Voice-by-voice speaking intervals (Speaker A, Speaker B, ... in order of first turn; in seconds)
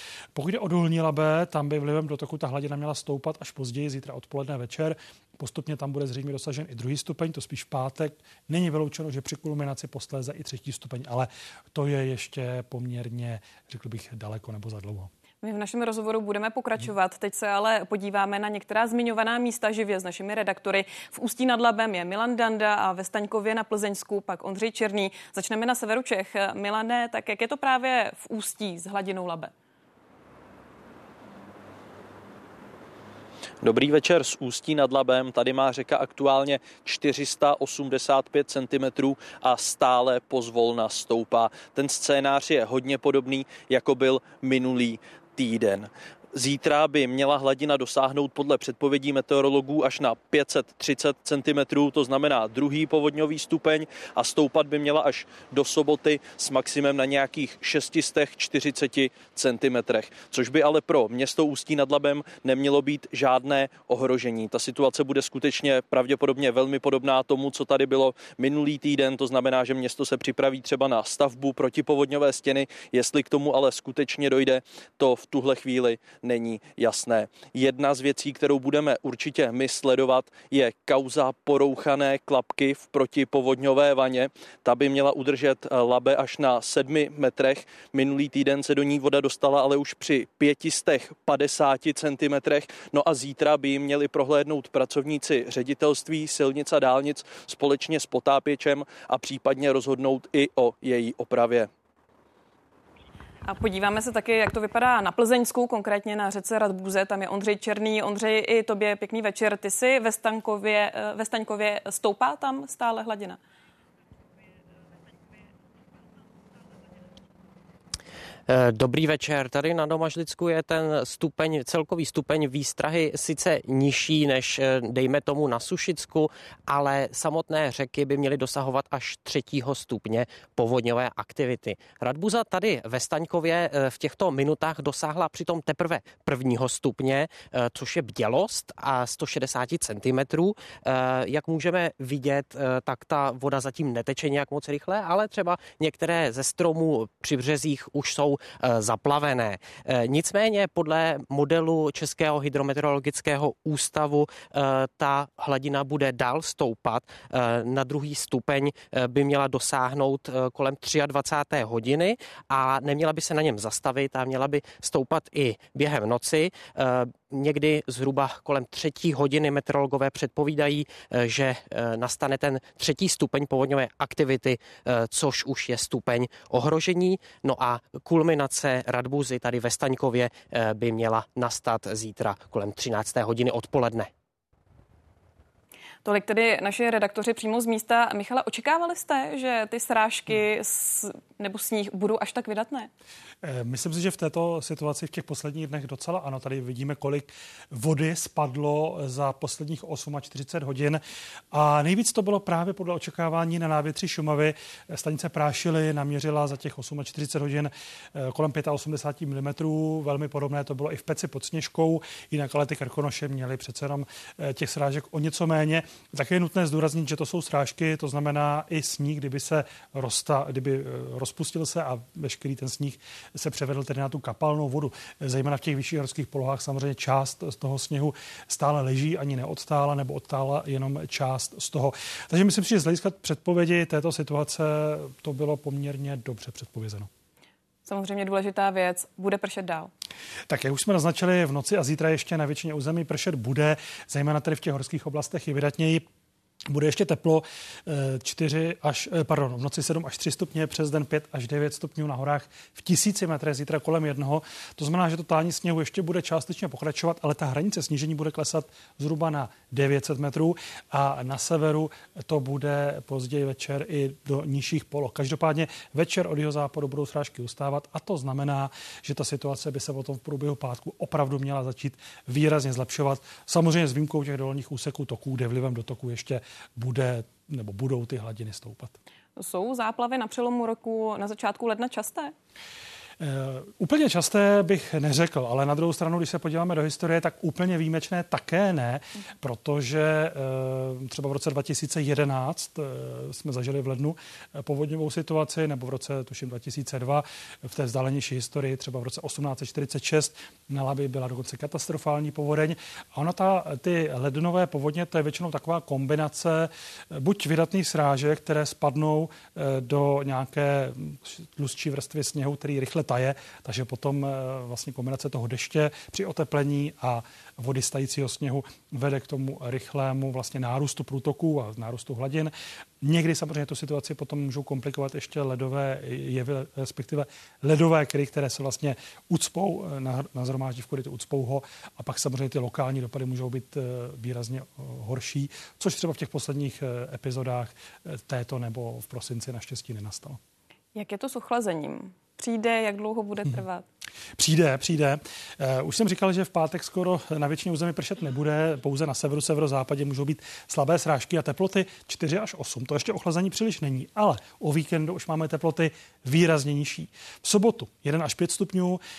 Speaker A: 0.3-15.1, 193.4-201.0, 201.5-237.1, 240.5-246.1, 246.7-279.0, 283.2-340.4, 344.4-359.0
Speaker B: 15.4-29.5, 103.5-113.4, 186.1-192.9, 237.9-239.9, 279.4-282.3, 340.9-343.9
Speaker C: 33.6-101.7
Speaker D: 118.5-184.1